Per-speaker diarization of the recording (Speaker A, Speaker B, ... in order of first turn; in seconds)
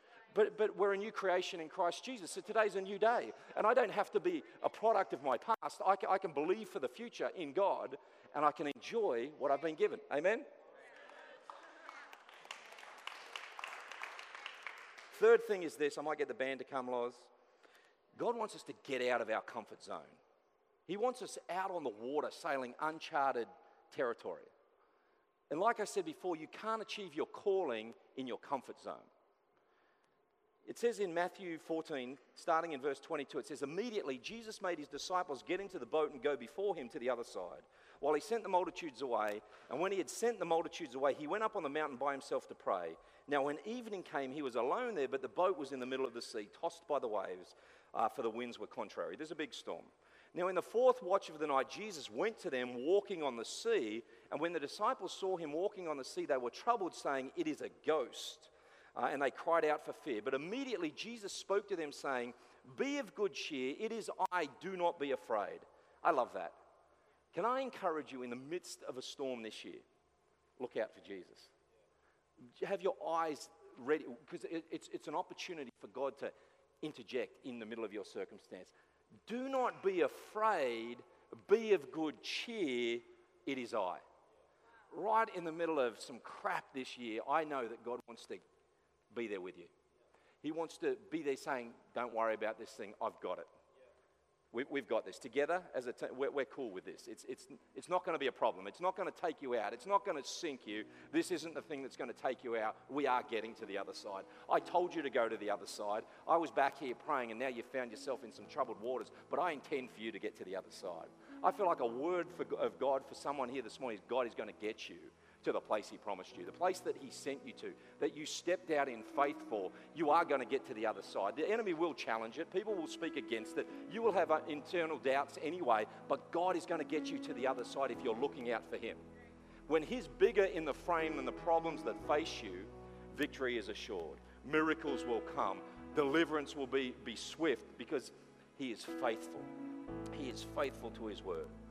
Speaker A: 0.3-10.4, 15.1-17.3, 18.2-20.2, 20.9-24.5, 25.5-29.1, 30.6-66.6, 67.3-69.8, 70.6-71.5, 72.6-78.7, 79.3-84.0, 84.9-88.4, 89.1-89.7, 90.4-93.5, 94.5-129.0, 129.7-139.5, 140.1-141.5